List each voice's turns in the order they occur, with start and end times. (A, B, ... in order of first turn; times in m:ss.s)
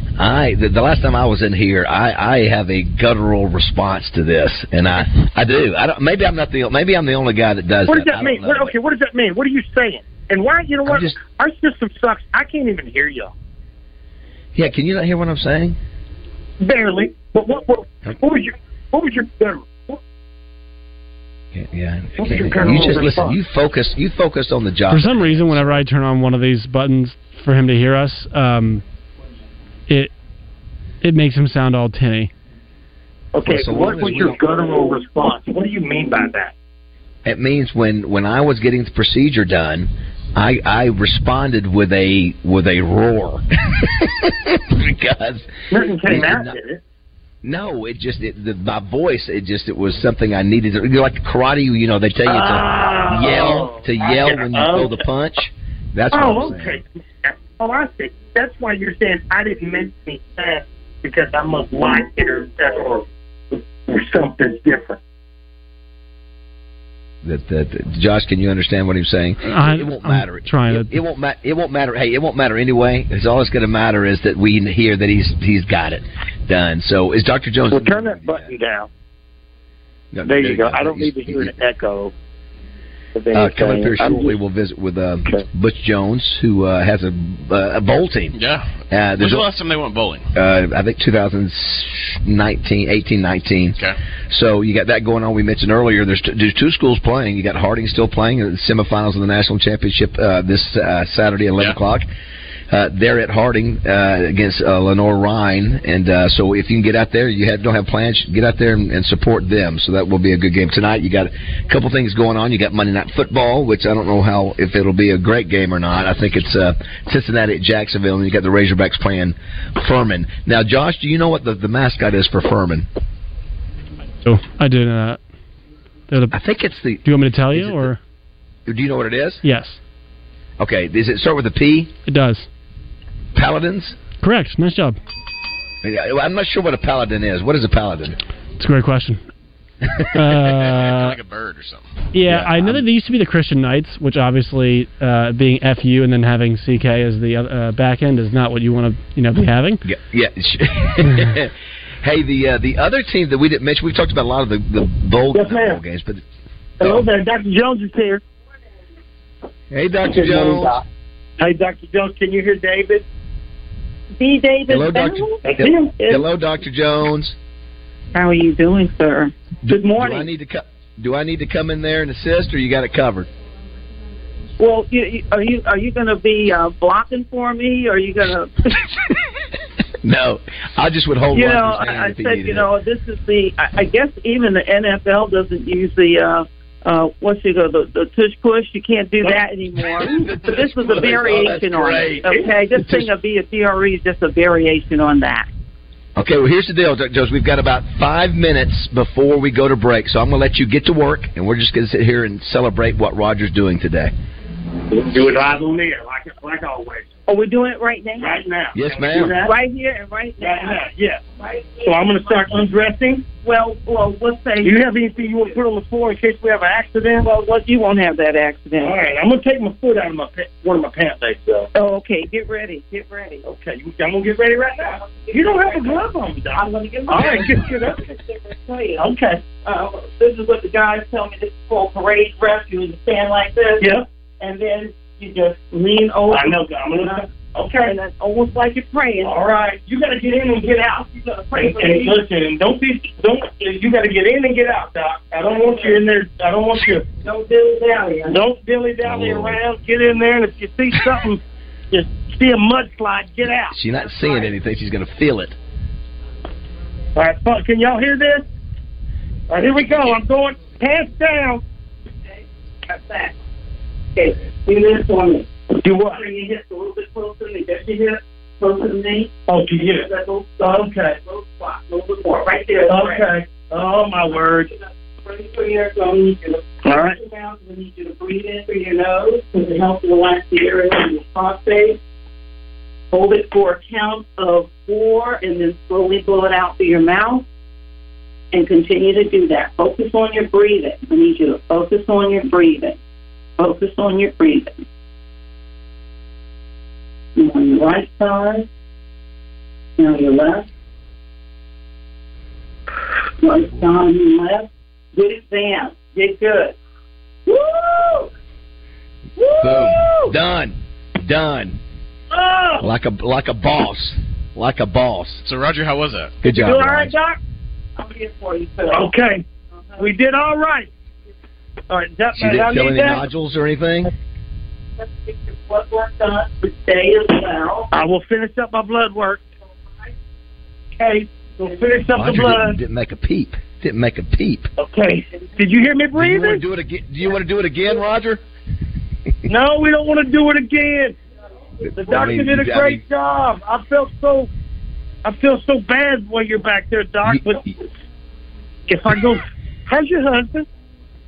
0:00.2-0:08.7 A
0:07.9-0:13.3 B
0:10.8-0:11.2 A
0:14.6-0:15.8 A
0:16.6-0:20.0 B
0:21.5-0:25.8 A
0:22.2-0:23.4 B
0:24.9-0:28.8 C
0:31.0-0:32.3 C
0:33.4-0:36.5 B
0:33.4-0:34.4 A
0:37.2-0:46.6 A
0:45.7-0:46.8 B
0:47.4-0:56.8 A
0:52.2-0:55.0 B
0:56.1-1:05.0 B
1:07.2-1:18.5 A
1:09.5-1:11.0 C
1:17.7-1:18.9 B
1:20.1-1:21.5 A
1:20.3-1:22.1 B
1:23.2-1:24.4 B
1:23.3-1:28.4 A
1:28.4-1:30.3 D
1:28.9-1:29.5 A
1:30.4-1:33.8 A
1:34.3-1:42.1 A
1:42.7-2:02.9 A
2:04.2-2:05.2 C
2:06.1-2:06.4 C
2:06.3-2:07.9 A
2:07.0-2:08.0 C
2:08.7-2:09.4 A
2:09.4-2:09.8 C
2:10.6-2:11.9 A
2:12.1-2:12.5 C
2:13.4-2:14.0 A
2:14.2-2:15.0 C
2:15.8-2:18.2 A
2:18.6-2:19.2 C
2:20.1-2:21.2 C
2:20.4-2:21.9 D
2:22.1-2:29.8 C
2:22.2-2:22.8 A
2:29.8-2:31.5 A
2:32.0-2:36.2 A
2:35.3-2:35.8 B
2:36.8-2:38.2 B
2:36.8-2:37.1 A
2:39.7-2:40.8 A
2:40.0-2:40.8 B
2:41.4-2:43.0 B
2:44.2-2:45.5 E
2:44.7-2:47.4 A
2:45.5-2:46.2 B
2:48.1-2:50.3 E
2:49.7-2:53.3 A
2:54.6-2:58.8 E
3:00.0-3:02.7 A
3:01.3-3:15.5 E
3:09.2-3:11.3 B
3:10.1-3:13.1 A
3:12.3-3:12.6 B
3:16.2-3:24.1 A
3:24.9-3:27.1 B
3:27.3-3:28.5 E
3:28.2-3:29.6 B
3:28.7-3:29.4 A
3:29.4-3:30.9 E
3:30.4-3:31.2 B
3:31.4-3:32.7 E
3:31.8-3:33.3 B
3:33.4-3:35.5 E
3:34.6-3:37.3 B
3:37.2-3:39.1 E
3:38.8-3:41.7 B
3:41.8-3:43.4 E
3:43.4-3:48.1 B
3:44.6-3:57.2 E
3:49.0-3:49.5 B
3:53.8-3:54.1 B
3:56.3-3:58.0 B
3:57.8-3:59.5 E
3:59.2-4:07.1 B
4:00.9-4:02.2 E
4:05.4-4:06.0 E
4:07.2-4:08.5 E
4:08.3-4:13.8 B
4:09.0-4:09.6 A
4:13.7-4:15.6 A
4:17.2-4:18.4 B
4:19.5-4:21.6 B
4:22.9-4:23.4 E
4:24.2-4:33.4 E
4:25.8-4:26.3 B
4:29.5-4:30.1 B
4:32.9-4:34.7 B
4:34.8-4:42.0 E
4:36.9-4:37.2 B
4:43.1-4:47.4 E
4:48.5-4:53.0 E
4:53.6-4:54.8 E
4:57.4-4:58.7 E
5:00.0-5:00.6 E
5:03.4-5:06.8 E
5:07.5-5:08.3 E
5:09.4-5:10.2 E
5:09.6-5:10.3 B
5:09.6-5:11.8 A
5:12.3-5:12.9 B
5:12.8-5:15.4 A
5:15.4-5:16.4 D
5:16.4-5:17.2 A
5:16.6-5:17.4 E
5:16.7-5:17.1 B
5:18.0-5:19.1 E
5:18.9-5:19.4 B
5:19.9-5:20.2 E
5:20.0-5:20.9 B
5:21.9-5:23.2 B
5:22.4-5:24.1 A
5:25.0-5:27.9 E
5:27.9-5:29.5 B
5:31.0-5:32.8 B
5:31.7-5:32.0 E
5:32.1-5:34.7 A
5:34.8-5:36.6 B
5:36.2-5:38.4 A
5:39.5-5:41.2 B
5:41.8-5:43.0 A
5:42.0-5:44.5 B
5:45.2-5:47.6 B
5:47.2-5:47.8 A
5:48.9-5:50.7 B